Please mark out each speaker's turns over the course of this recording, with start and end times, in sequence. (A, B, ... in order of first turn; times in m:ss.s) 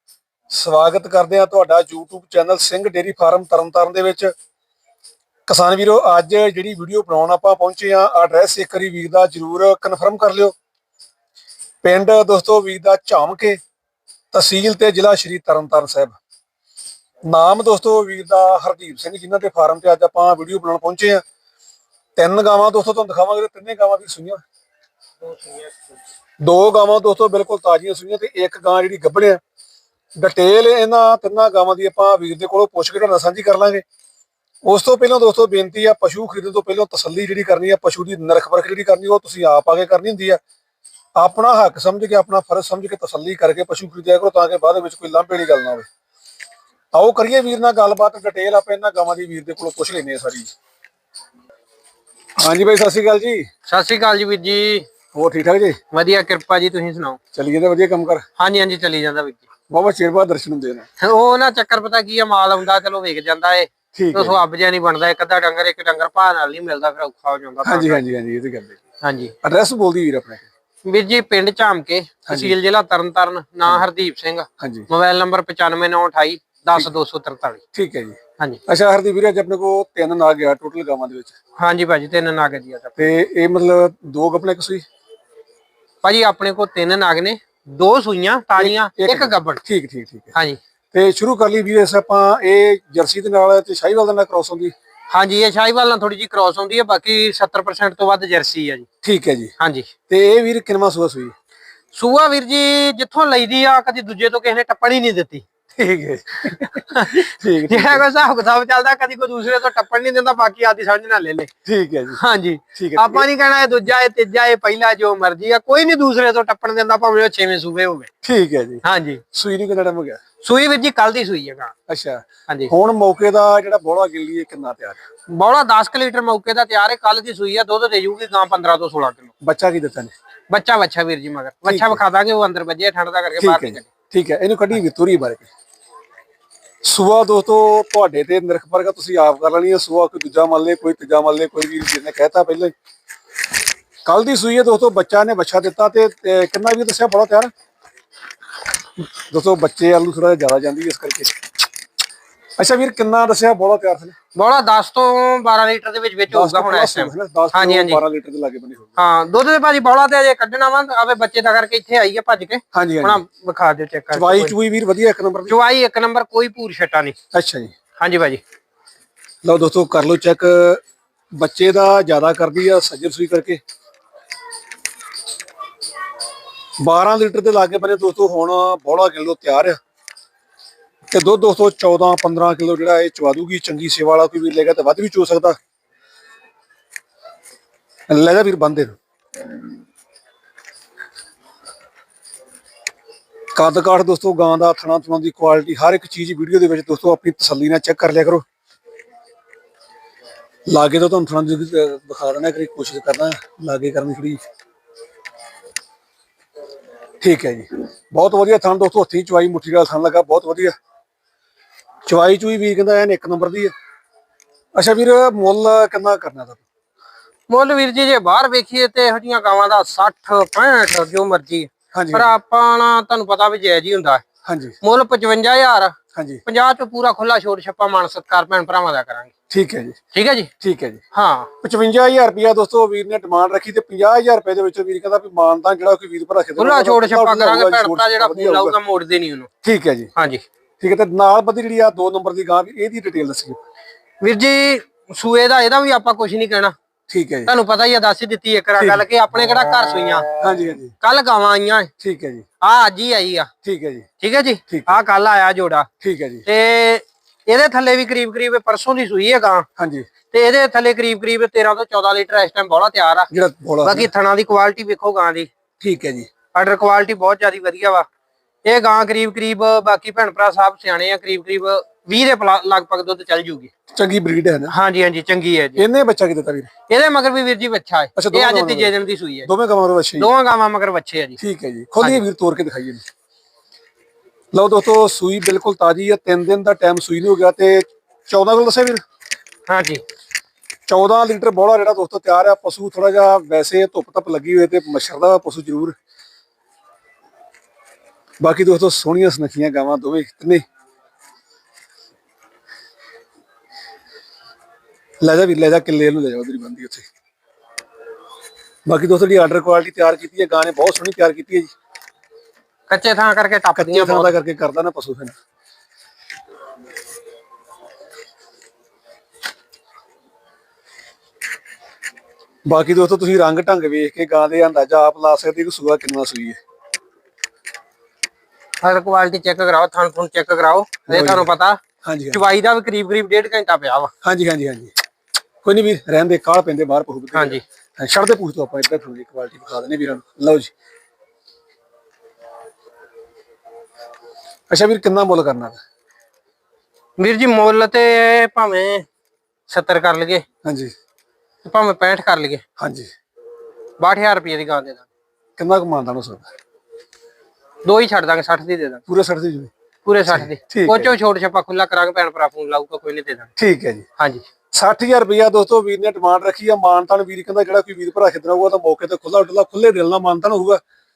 0:00.5-0:04.3 A
0:05.5-0:10.5 A
0:11.8-0:13.6 A
0:14.3-0:16.2 A
0:17.2-0:21.2 A
0:22.2-0:24.4 A
0:25.2-0:25.7 B
0:26.4-0:29.4 A
0:30.2-0:33.8 A
0:34.6-0:40.4 A
0:41.2-0:45.8 A
0:46.9-0:50.5 A
0:52.4-0:53.5 A
0:53.7-0:54.9 B
0:55.1-0:55.8 A
0:55.9-0:57.2 B
0:57.3-0:58.2 A
0:58.4-0:59.4 B
0:59.7-1:00.8 A
1:01.0-1:08.1 B
1:03.9-1:04.4 A
1:07.6-1:08.8 A
1:09.0-1:09.3 B
1:09.4-1:10.5 A
1:10.8-1:17.6 B
1:12.3-1:12.5 A
1:14.6-1:14.9 A
1:17.7-1:21.3 A
1:21.6-1:23.0 B
1:23.0-1:24.8 A
1:26.0-1:29.6 B
1:28.6-1:30.3 A
1:30.3-1:30.6 B
1:30.9-1:34.7 A
1:35.1-1:38.8 B
1:39.0-1:39.5 A
1:39.6-1:39.9 B
1:40.1-1:41.3 A
1:41.9-1:45.4 B
1:45.8-1:48.0 A
1:46.9-1:51.5 B
1:51.6-1:52.2 A
1:52.2-1:58.1 B
1:52.7-1:53.3 A
1:58.2-2:00.2 A
1:58.8-1:59.2 B
2:00.4-2:01.7 B
2:01.9-2:05.0 A
2:05.3-2:09.3 B
2:09.4-2:10.1 A
2:10.5-2:13.9 B
2:11.6-2:12.0 A
2:13.4-2:15.5 A
2:16.8-2:22.7 A
2:24.0-2:27.5 A
2:29.2-2:31.3 A
2:32.6-2:34.1 A
2:34.3-2:38.0 B
2:36.3-2:38.9 A
2:39.0-2:44.5 B
2:42.7-2:43.2 A
2:44.1-2:45.5 A
2:45.5-2:47.2 B
2:47.3-2:47.7 A
2:48.0-2:48.4 B
2:49.4-2:50.8 A
2:51.3-2:53.6 A
2:56.8-2:59.8 A
3:01.1-3:05.6 A
3:08.1-3:09.0 A
3:13.5-3:18.4 A
3:20.7-3:24.4 A
3:27.2-3:30.8 A
3:32.0-3:33.7 A
3:34.7-3:36.6 A
3:37.5-3:44.2 B
3:41.9-3:42.4 A
3:44.4-3:44.8 A
3:44.8-3:49.3 B
3:46.1-3:46.4 A
3:49.5-3:50.0 A
3:50.1-3:50.5 B
3:50.6-3:51.0 A
3:51.1-3:51.5 B
3:51.6-3:58.8 A
3:56.6-3:59.5 B
3:59.6-4:00.1 A
4:00.1-4:00.4 B
4:00.8-4:03.6 A
4:04.2-4:06.7 B
4:07.1-4:07.5 A
4:07.5-4:10.3 B
4:08.8-4:09.0 A
4:10.4-4:10.9 A
4:11.0-4:11.9 B
4:12.0-4:12.4 A
4:12.6-4:13.5 B
4:13.6-4:14.1 A
4:14.2-4:15.9 B
4:14.7-4:15.0 A
4:16.0-4:16.4 A
4:16.4-4:19.6 B
4:19.8-4:20.1 A
4:20.3-4:23.3 B
4:23.3-4:24.1 A
4:23.8-4:25.5 B
4:25.8-4:26.3 A
4:26.5-4:28.0 B
4:28.6-4:33.7 B
4:33.9-4:34.7 A
4:34.7-4:35.8 B
4:35.8-4:36.7 A
4:36.9-4:39.5 B
4:38.2-4:38.9 A
4:39.4-4:40.3 A
4:40.2-4:41.4 B
4:41.4-4:43.0 A
4:44.5-4:49.0 A
4:49.7-4:50.0 B
4:50.9-4:55.9 A
4:58.4-5:00.6 A
5:05.2-5:07.1 A
5:08.8-5:11.7 A
5:12.9-5:14.3 B
5:13.8-5:15.3 A
5:22.6-5:26.6 A
5:28.8-5:31.8 B
5:31.1-5:31.5 A
5:32.0-5:32.4 A
5:32.3-5:34.1 B
5:34.2-5:35.0 A
5:35.6-5:40.7 A
5:37.3-5:37.6 B
5:44.7-5:45.8 A
5:47.2-5:49.0 B
5:49.7-5:50.4 B
5:50.6-5:50.9 A
5:51.6-5:52.6 B
5:52.8-5:53.1 A
5:54.0-5:55.0 B
5:55.6-5:56.5 A
5:57.8-5:59.0 B
5:59.1-5:59.7 A
6:00.0-6:03.5 B
6:00.3-6:01.1 A
6:03.6-6:04.0 A
6:04.2-6:04.4 B
6:04.7-6:10.8 A